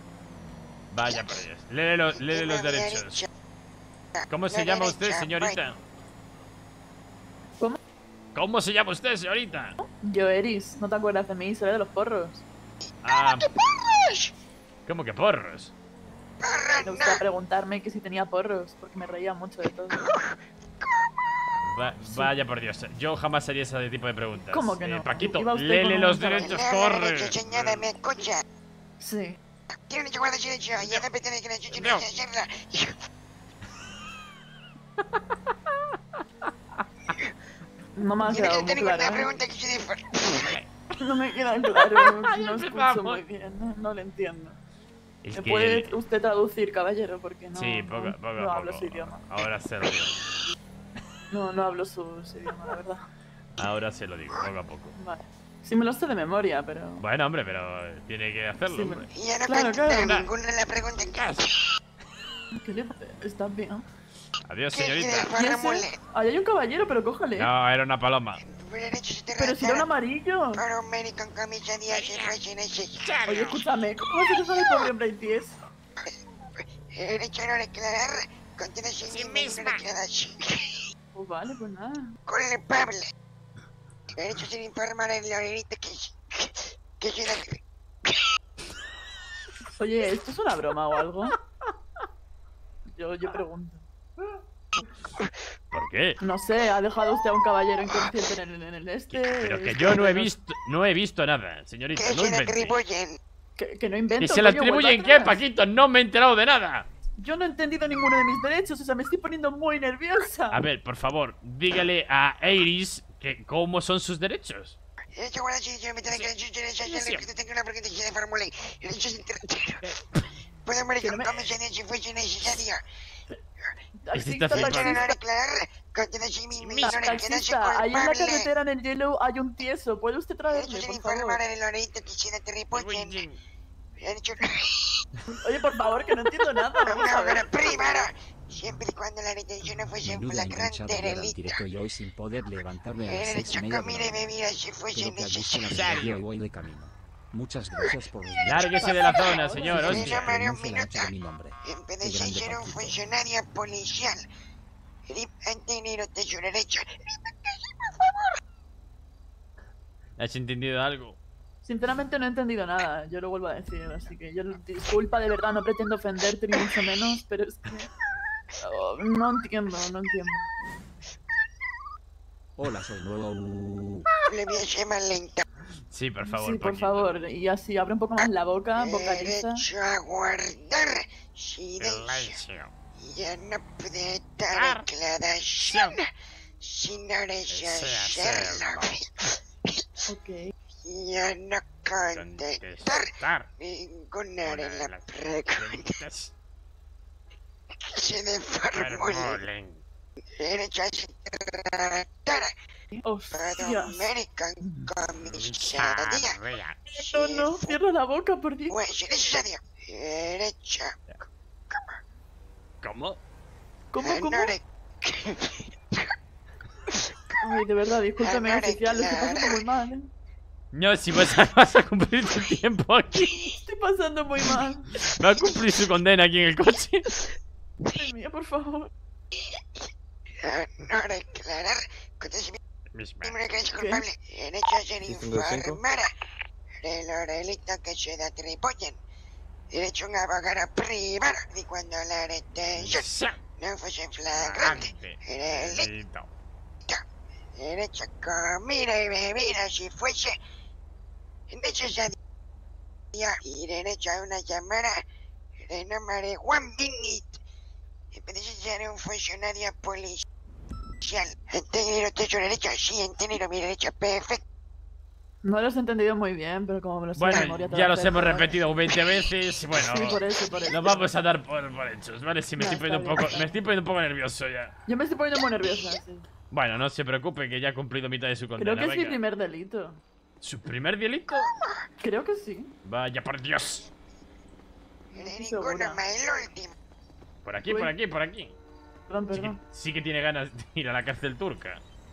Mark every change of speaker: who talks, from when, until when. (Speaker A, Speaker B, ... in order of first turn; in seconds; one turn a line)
Speaker A: 0.9-3.2
Speaker B: 1.1-1.4
Speaker B: 2.2-3.2
Speaker B: 4.2-5.6
Speaker A: 4.3-5.8
Speaker A: 8.3-9.8
Speaker C: 9.8-12.4
Speaker A: 13.0-13.5
Speaker B: 13.2-14.3
Speaker A: 14.8-15.7
Speaker B: 16.4-17.2
Speaker C: 16.8-20.0
Speaker B: 19.9-21.2
Speaker A: 21.6-27.9
Speaker C: 22.0-22.3
Speaker C: 24.4-26.5
Speaker B: 26.4-28.4
Speaker C: 29.0-29.4
Speaker B: 29.9-32.9
Speaker A: 30.8-31.1
Speaker A: 31.7-32.0
Speaker C: 38.0-39.3
Speaker B: 38.3-40.5
Speaker A: 40.3-40.7
Speaker C: 41.0-44.6
Speaker A: 41.8-43.2
Speaker A: 45.2-45.9
Speaker C: 45.3-49.2
Speaker A: 47.5-50.1
Speaker C: 51.3-53.0
Speaker A: 53.6-54.9
Speaker C: 55.0-57.0
Speaker A: 57.0-59.1
Speaker C: 58.7-60.1
Speaker B: 59.1-61.5
Speaker A: 60.0-60.3
Speaker A: 61.0-61.4
Speaker C: 62.5-63.8
Speaker A: 64.5-65.3
Speaker B: 64.7-66.0
Speaker C: 65.3-67.5
Speaker A: 67.3-68.4
Speaker B: 68.4-69.9
Speaker C: 69.3-70.6
Speaker B: 70.5-73.2
Speaker A: 71.9-72.3
Speaker A: 73.0-73.6
Speaker C: 73.3-75.7
Speaker B: 76.9-80.7
Speaker A: 79.0-79.8
Speaker C: 81.1-82.1
Speaker B: 82.3-83.1
Speaker B: 84.2-87.6
Speaker C: 89.7-91.3
Speaker C: 92.9-93.8
Speaker A: 95.7-96.2
Speaker C: 96.2-100.3
Speaker A: 99.1-102.8
Speaker B: 101.9-103.2
Speaker C: 103.6-105.4
Speaker A: 104.2-106.9
Speaker C: 107.2-110.6
Speaker A: 110.5-114.8
Speaker B: 115.1-119.8
Speaker A: 116.1-117.3
Speaker A: 119.8-120.2
Speaker B: 120.7-122.8
Speaker C: 121.0-121.4
Speaker C: 124.0-125.2
Speaker A: 124.1-125.0
Speaker B: 124.5-128.5
Speaker A: 126.6-127.2
Speaker C: 126.8-131.4
Speaker B: 130.5-133.2
Speaker A: 132.7-133.4
Speaker B: 134.0-134.9
Speaker C: 135.3-137.5
Speaker B: 136.8-141.6
Speaker D: 140.0-144.2
Speaker B: 143.1-146.1
Speaker D: 144.9-148.7
Speaker A: 145.7-146.2
Speaker B: 148.3-154.2
Speaker A: 148.4-150.4
Speaker C: 148.8-150.1
Speaker D: 149.6-152.9
Speaker B: 155.1-158.3
Speaker A: 160.2-161.2
Speaker C: 161.6-167.9
Speaker C: 168.6-170.5
Speaker D: 172.6-174.1
Speaker B: 174.3-175.4
Speaker A: 175.9-177.2
Speaker C: 176.2-179.6
Speaker B: 178.8-182.4
Speaker A: 181.8-182.7
Speaker B: 183.0-186.0
Speaker A: 184.5-184.8
Speaker A: 185.6-186.0
Speaker B: 186.6-189.1
Speaker A: 187.5-189.0
Speaker C: 190.1-190.5
Speaker B: 190.8-193.1
Speaker A: 192.1-193.5
Speaker B: 193.6-195.9
Speaker A: 194.4-196.3
Speaker B: 197.9-199.4
Speaker A: 198.7-199.8
Speaker B: 200.4-202.5
Speaker C: 202.9-204.1
Speaker B: 203.3-206.4
Speaker C: 204.6-204.9
Speaker A: 205.2-206.8
Speaker C: 206.9-208.8
Speaker B: 206.9-207.8
Speaker B: 208.7-211.0
Speaker B: 211.7-212.0
Speaker A: 212.8-213.2
Speaker C: 213.9-214.5
Speaker B: 214.0-216.1
Speaker C: 217.4-220.1
Speaker B: 218.2-219.6
Speaker A: 220.7-223.4
Speaker B: 223.2-223.5
Speaker C: 223.6-224.9
Speaker A: 225.0-227.1
Speaker C: 227.8-228.9
Speaker B: 230.4-232.6
Speaker A: 232.9-233.4
Speaker B: 233.2-236.1
Speaker C: 233.7-234.0
Speaker D: 235.1-235.8
Speaker B: 236.8-239.0
Speaker B: 239.7-245.9
Speaker A: 242.8-243.4
Speaker A: 244.3-246.3
Speaker B: 247.6-250.3
Speaker B: 251.5-252.2
Speaker B: 253.1-255.0
Speaker B: 255.6-257.4
Speaker B: 258.1-260.2
Speaker B: 261.0-264.4
Speaker C: 265.4-268.5
Speaker A: 267.1-270.2
Speaker C: 269.8-271.1
Speaker A: 270.7-274.7
Speaker C: 272.6-273.6
Speaker C: 274.9-276.3
Speaker A: 276.5-279.2
Speaker C: 278.6-280.0
Speaker A: 280.4-281.5
Speaker C: 282.0-282.7
Speaker A: 282.8-283.8
Speaker B: 285.1-286.7
Speaker C: 285.1-286.0
Speaker A: 287.4-288.6
Speaker C: 287.6-287.9
Speaker C: 289.1-289.6
Speaker A: 289.3-291.8